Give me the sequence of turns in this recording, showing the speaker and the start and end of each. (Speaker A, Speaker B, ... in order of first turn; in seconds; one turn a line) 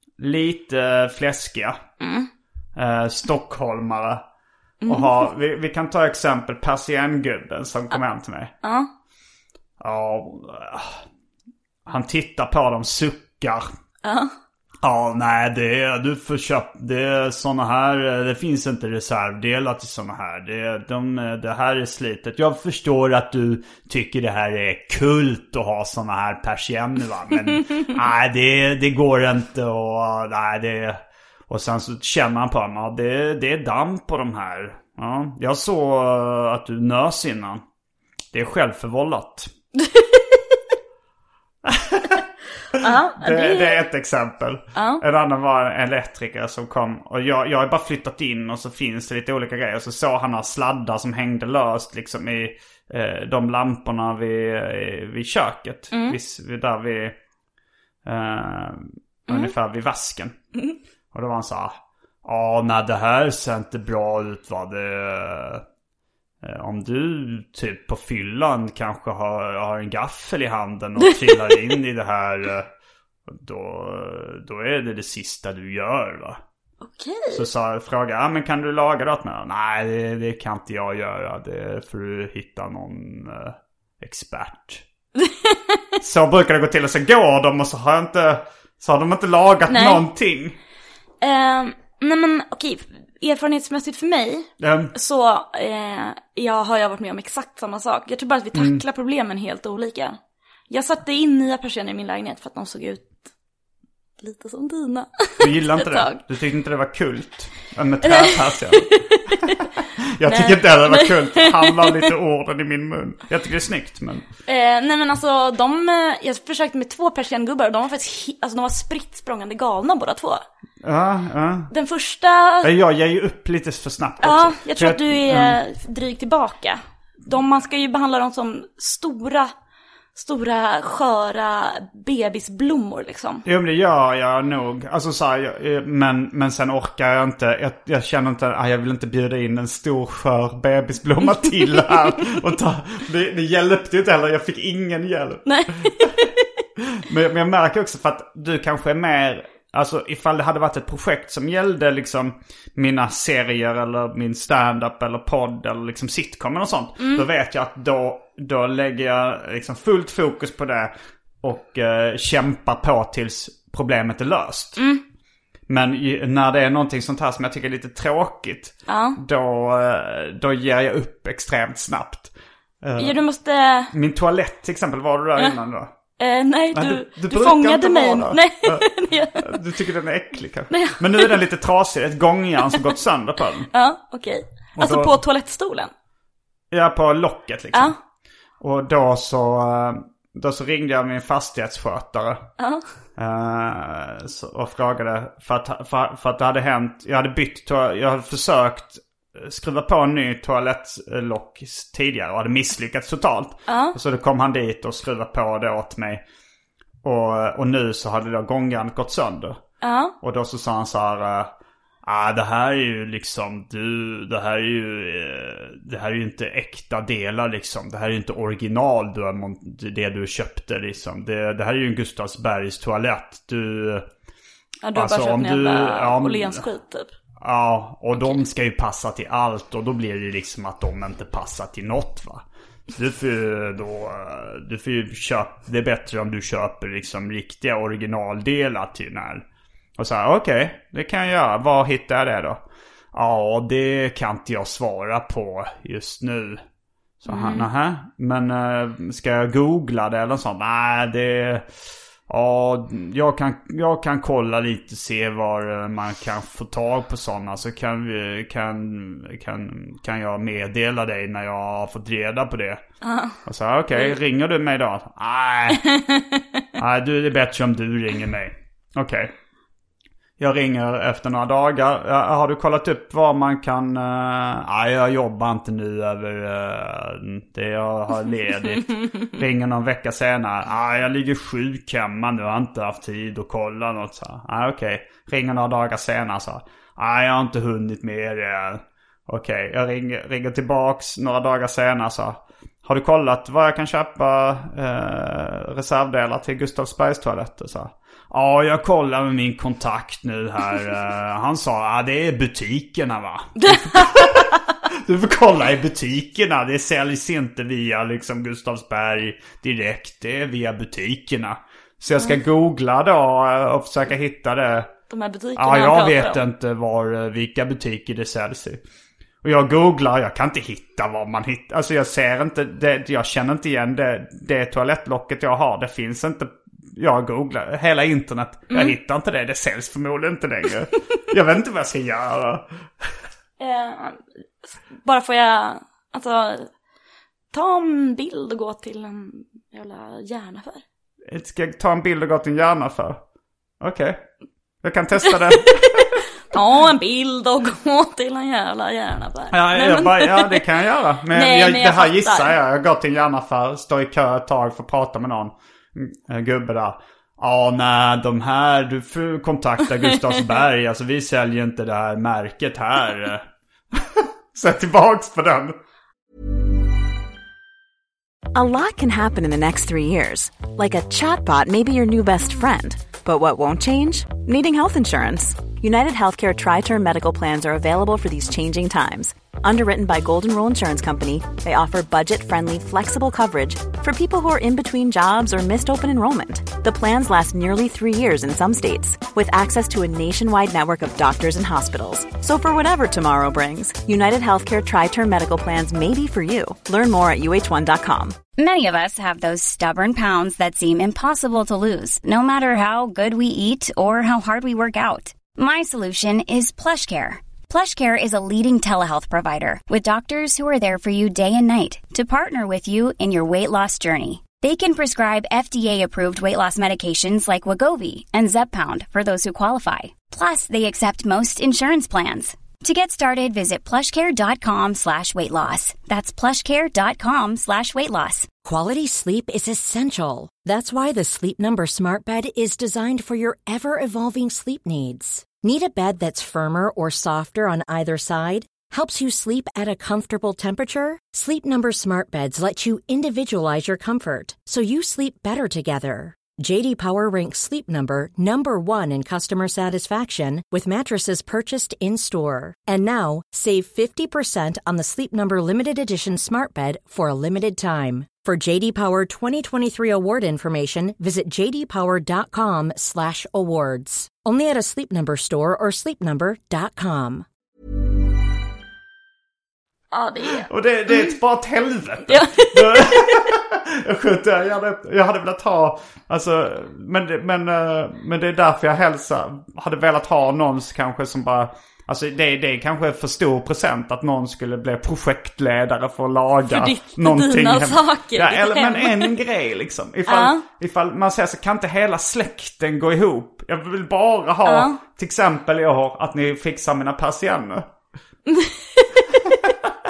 Speaker A: 0.2-1.8
Speaker B: 2.0-2.3
Speaker A: 2.8-4.2
Speaker B: 4.8-5.3
Speaker A: 4.9-8.5
Speaker B: 8.6-8.9
Speaker A: 9.8-11.0
Speaker A: 11.9-13.7
Speaker B: 14.0-14.3
Speaker A: 14.8-37.6
Speaker A: 38.3-39.5
Speaker B: 39.8-40.4
Speaker A: 41.6-42.2
Speaker B: 42.7-43.8
Speaker A: 42.8-57.2
Speaker B: 44.8-45.0
Speaker B: 55.9-56.2
Speaker A: 58.0-60.4
Speaker B: 59.3-59.5
Speaker A: 61.1-65.7
Speaker A: 66.4-72.7
Speaker A: 73.3-76.4
Speaker B: 76.8-77.5
Speaker A: 77.3-84.8
Speaker B: 85.2-85.8
Speaker A: 86.0-90.6
Speaker B: 89.7-90.0
Speaker B: 91.2-100.2
Speaker A: 94.6-94.9
Speaker A: 98.5-98.8
Speaker B: 100.7-103.2
Speaker B: 104.2-106.2
Speaker A: 105.4-108.9
Speaker B: 108.0-109.7
Speaker A: 109.5-114.3
Speaker B: 110.2-112.1
Speaker B: 114.5-120.4
Speaker A: 120.8-121.7
Speaker B: 121.7-122.7
Speaker A: 122.6-125.6
Speaker B: 124.2-129.5
Speaker B: 130.2-133.4
Speaker A: 133.4-146.2
Speaker B: 141.4-142.3
Speaker B: 145.5-146.4
Speaker A: 146.8-164.8
Speaker B: 157.0-157.2
Speaker B: 164.8-165.0
Speaker A: 165.7-172.3
Speaker B: 168.9-169.2
Speaker A: 172.8-173.2
Speaker B: 173.0-173.9
Speaker A: 173.9-175.9
Speaker B: 176.2-179.6
Speaker A: 176.7-183.7
Speaker B: 180.7-181.4
Speaker B: 183.7-185.9
Speaker A: 184.8-185.2
Speaker A: 186.7-187.9
Speaker A: 188.6-192.5
Speaker A: 193.2-206.2
Speaker B: 203.7-204.0
Speaker A: 207.0-209.6
Speaker B: 209.8-210.2
Speaker A: 210.2-211.5
Speaker A: 212.0-224.1
Speaker B: 224.8-227.1
Speaker A: 224.9-226.7
Speaker A: 227.4-239.4
Speaker A: 240.0-246.6
Speaker A: 247.2-251.7
Speaker B: 247.3-247.7
Speaker A: 252.3-262.8
Speaker B: 263.0-263.4
Speaker A: 263.5-265.9
Speaker B: 265.7-266.6
Speaker A: 266.8-269.3
Speaker A: 270.4-314.9
Speaker B: 303.6-304.6
Speaker B: 315.1-316.4
Speaker A: 315.6-318.8
Speaker A: 319.4-333.1
Speaker B: 333.6-336.7
Speaker B: 337.5-340.8
Speaker A: 341.3-343.2
Speaker A: 343.8-344.2
Speaker A: 344.8-346.2
Speaker B: 345.4-350.7
Speaker A: 349.5-365.8
Speaker B: 351.3-352.6
Speaker C: 368.5-398.4
Speaker D: 398.6-428.5
Speaker E: 428.6-467.5
Speaker B: 470.1-471.3
Speaker A: 470.6-497.9
Speaker B: 472.3-473.5
Speaker B: 486.7-489.4
Speaker B: 490.3-490.6
Speaker B: 494.6-495.0
Speaker B: 498.5-499.6